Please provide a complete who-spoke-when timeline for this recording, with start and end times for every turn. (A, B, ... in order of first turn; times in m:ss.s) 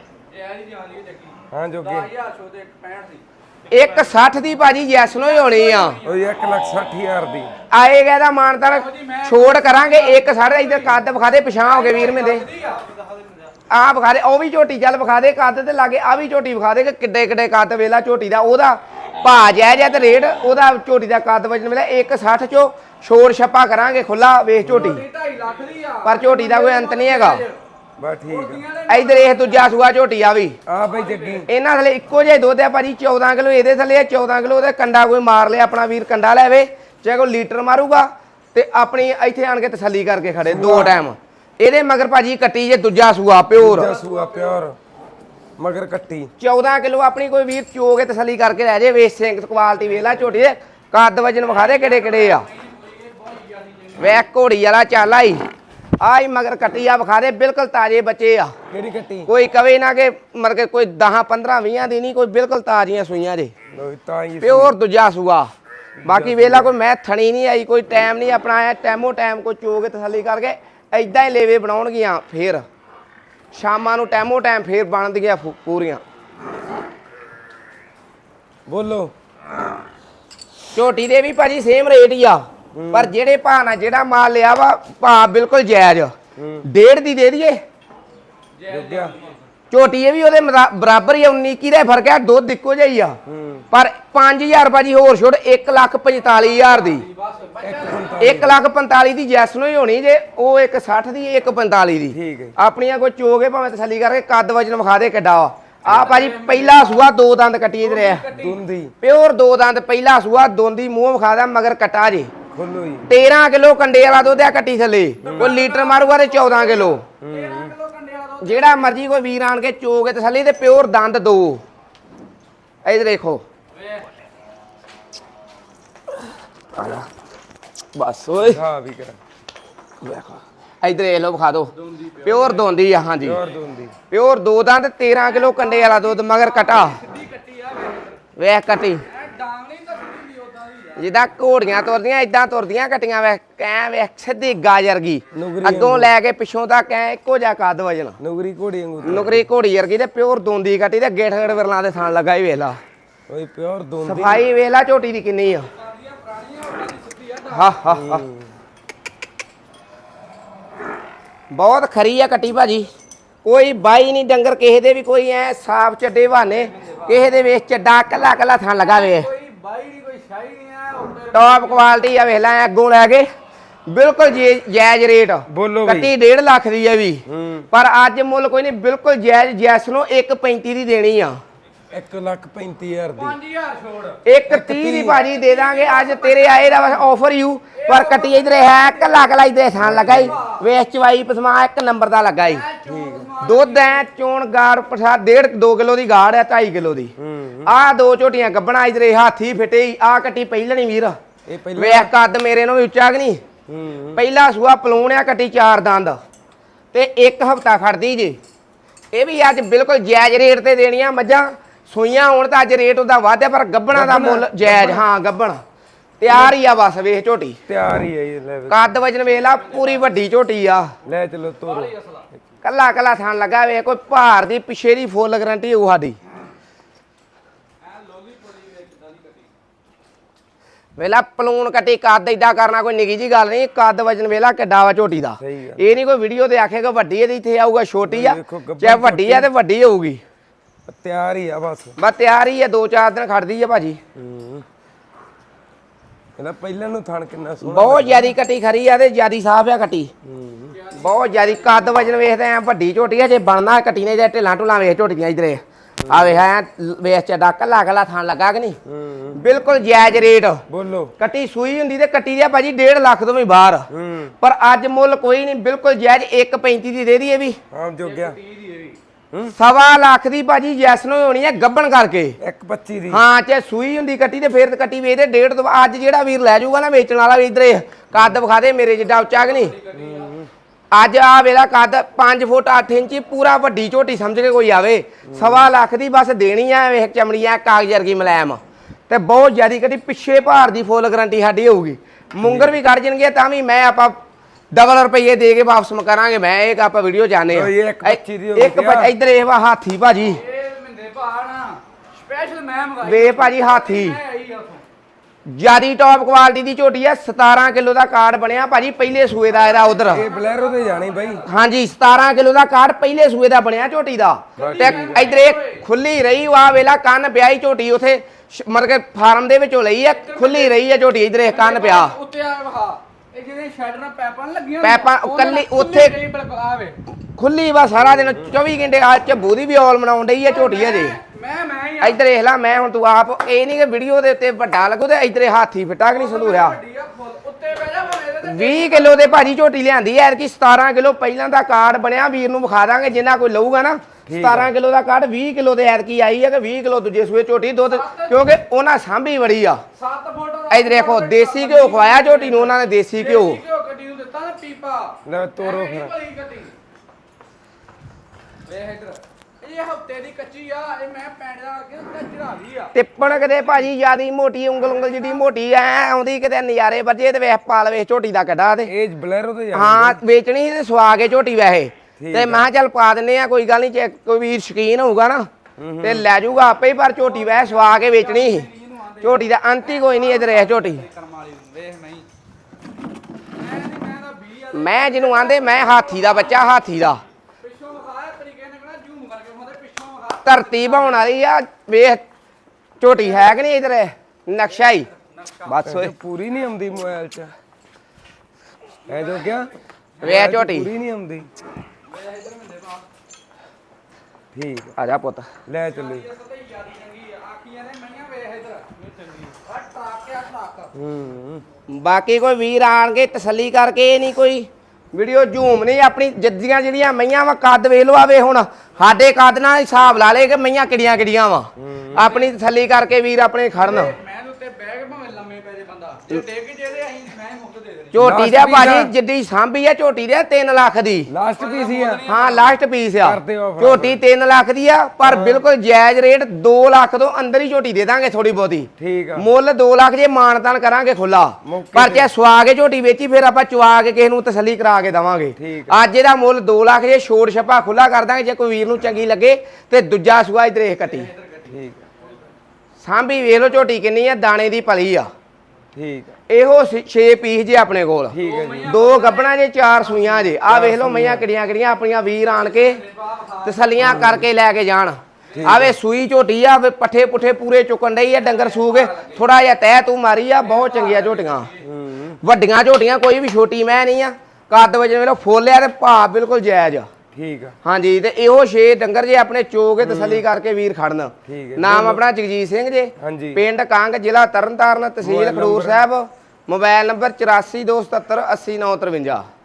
0:00.3-0:04.3 A
0:01.5-0:02.1 B
0:03.7-0:06.0 C
0:04.9-0:06.2 A
0:06.0-0:07.5 B
0:07.7-0:12.5 C
0:08.6-0:11.0 A
0:11.6-0:13.3 A
0:13.7-0:25.0 C
0:24.6-0:25.0 B
0:24.6-0:27.6 A
0:26.0-0:27.4 C
0:28.0-0:28.6 B
0:28.3-0:29.8 A
0:28.9-0:30.6 C
0:30.6-0:31.5 B
0:30.8-0:31.4 A
0:31.5-0:43.9 C
0:40.4-0:41.0 B
0:43.5-0:44.8 B
0:43.8-0:44.6 A
0:45.6-0:46.3 B
0:46.4-0:52.5 C
0:51.4-0:54.2 A
0:54.0-0:55.4 C
0:56.0-0:58.5 C
0:58.7-0:59.3 B
0:59.3-1:03.5 C
1:03.7-1:04.8 B
1:04.4-1:05.5 C
1:06.0-1:06.7 B
1:06.1-1:12.6 C
1:13.5-1:16.0 C
1:18.7-1:19.1 B
1:20.7-1:26.1 C
1:22.7-1:23.1 B
1:26.4-1:26.6 B
1:26.6-1:27.6 C
1:28.6-1:29.4 A
1:28.7-1:29.2 B
1:29.7-1:33.2 C
1:33.2-1:33.6 B
1:33.7-1:37.0 C
1:36.2-1:38.2 A
1:37.6-1:38.6 B
1:38.2-1:48.2 C
1:42.1-1:42.6 B
1:45.8-1:47.1 A
1:47.8-1:48.6 A
1:48.3-1:48.9 B
1:49.0-1:52.3 C
1:52.5-1:53.1 B
1:53.1-1:57.0 C
1:55.2-1:59.0 A
1:55.2-1:55.5 B
1:57.2-1:57.7 B
1:58.4-2:01.6 C
2:02.8-2:03.4 C
2:03.7-2:04.0 A
2:06.8-2:07.1 C
2:08.0-2:08.6 C
2:08.4-2:09.2 B
2:10.0-2:11.7 C
2:11.8-2:12.7 A
2:12.2-2:13.4 C
2:13.2-2:13.9 B
2:14.1-2:17.0 C
2:15.2-2:18.2 A
2:18.4-2:19.0 C
2:19.0-2:21.1 A
2:21.0-2:28.2 C
2:25.3-2:26.1 B
2:28.2-2:29.5 B
2:29.0-2:32.8 C
2:33.3-2:34.4 B
2:34.0-2:35.7 C
2:35.7-2:37.8 A
2:37.5-2:38.2 C
2:37.9-2:38.5 B
2:41.5-2:42.9 C
2:43.4-2:49.3 C
2:46.6-2:47.2 A
2:48.8-2:52.3 A
2:51.3-2:53.3 C
2:53.9-3:01.4 C
2:55.5-2:56.1 B
2:57.3-2:57.6 B
3:01.9-3:03.4 B
3:03.1-3:04.2 A
3:04.2-3:12.6 C
3:04.5-3:05.2 B
3:05.1-3:07.1 A
3:07.7-3:09.3 A
3:09.8-3:10.4 B
3:10.0-3:10.6 A
3:12.4-3:14.0 A
3:12.8-3:13.3 B
3:13.4-3:17.1 C
3:17.2-3:17.7 B
3:17.6-3:21.2 C
3:21.5-3:22.1 B
3:21.7-3:23.4 C
3:23.7-3:24.2 B
3:24.1-3:26.2 C
3:26.9-3:28.4 C
3:29.1-3:35.6 C
3:33.9-3:35.0 B
3:36.2-3:37.6 C
3:37.7-3:38.8 B
3:38.7-3:40.9 C
3:39.4-3:40.1 A
3:41.0-3:41.9 B
3:41.6-3:42.2 A
3:42.6-3:46.2 C
3:47.8-3:49.5 A
3:51.0-4:00.2 C
3:55.4-3:55.8 B
3:58.0-3:59.5 B
4:00.9-4:01.9 B
4:02.0-4:04.0 C
4:04.1-4:04.6 B
4:06.4-4:08.4 B
4:07.6-4:10.1 C
4:10.2-4:10.8 B
4:10.7-4:12.0 A
4:10.9-4:18.8 C
4:16.1-4:16.4 B
4:18.8-4:19.4 B
4:19.4-4:20.6 C
4:20.7-4:21.1 B
4:21.2-4:23.9 C
4:23.9-4:24.3 B
4:24.4-4:27.6 C
4:27.7-4:28.4 B
4:28.0-4:29.0 A
4:29.6-4:32.4 C
4:32.4-4:33.2 B
4:33.1-4:39.7 C
4:39.0-4:40.3 A
4:39.9-4:40.5 B
4:40.9-4:54.2 C
4:45.2-4:45.7 B
4:52.4-4:52.7 B
4:54.7-5:00.4 C
4:57.5-4:59.1 B
5:00.2-5:04.8 A
5:03.0-5:04.2 C
5:05.5-5:10.2 C
5:09.5-5:11.4 A
5:10.1-5:11.4 B
5:11.4-5:22.1 C
5:14.6-5:15.3 B
5:14.6-5:15.8 A
5:20.1-5:20.8 A
5:21.4-5:27.0 A
5:24.8-5:26.2 C
5:27.4-5:31.2 C
5:28.0-5:28.5 B
5:30.4-5:32.2 A
5:32.0-5:36.8 C
5:36.1-5:39.5 A
5:38.4-5:49.8 C
5:44.3-5:44.7 B
5:47.8-5:48.4 A
5:50.0-5:56.7 A
5:50.7-5:53.6 C
5:55.2-5:56.1 B
5:58.6-6:03.9 A
6:02.9-6:08.9 C
6:04.9-6:05.4 A
6:08.8-6:10.2 B
6:09.7-6:15.5 C
6:12.2-6:12.7 B
6:15.8-6:16.3 B
6:16.0-6:18.7 C
6:17.2-6:22.3 A
6:19.2-6:21.0 C
6:23.6-6:26.8 A
6:24.7-6:27.2 C
6:27.6-6:31.3 A
6:30.4-6:32.2 C
6:33.0-6:35.1 C
6:34.8-6:35.8 A
6:35.6-6:36.1 C
6:35.8-6:37.5 B
6:39.1-6:41.5 B
6:39.1-6:39.5 A
6:40.2-6:40.9 C
6:42.1-6:43.1 A
6:44.5-6:44.9 B
6:45.0-6:45.5 C
6:45.7-6:46.3 B
6:45.9-6:50.9 A
6:50.9-6:51.6 B
6:51.9-7:04.1 C
7:01.8-7:02.3 B
7:02.2-7:02.5 A
7:03.8-7:08.2 A
7:08.1-7:11.3 C
7:08.2-7:09.1 B
7:11.3-7:12.2 B
7:11.6-7:12.7 A
7:12.2-7:31.3 C
7:13.2-7:14.2 B
7:15.2-7:15.6 B
7:19.0-7:19.5 B
7:21.6-7:22.3 B
7:25.6-7:26.0 B
7:31.0-7:31.7 A
7:31.6-7:32.0 B
7:33.0-7:35.3 C
7:35.9-7:36.4 B
7:36.5-7:43.0 C
7:38.3-7:39.0 B
7:38.4-7:40.5 A
7:40.6-7:41.5 B
7:42.4-7:43.9 A
7:43.6-7:51.7 C
7:44.0-7:44.4 B
7:45.5-7:45.8 A
7:45.5-7:46.0 B
7:48.4-7:49.5 A
7:50.6-7:51.8 A
7:51.8-7:52.4 B
7:52.4-7:57.1 C
7:57.3-7:57.8 B
7:57.8-8:09.4 C
8:00.0-8:00.4 B
8:01.4-8:02.2 B
8:03.2-8:03.6 B
8:05.2-8:06.0 B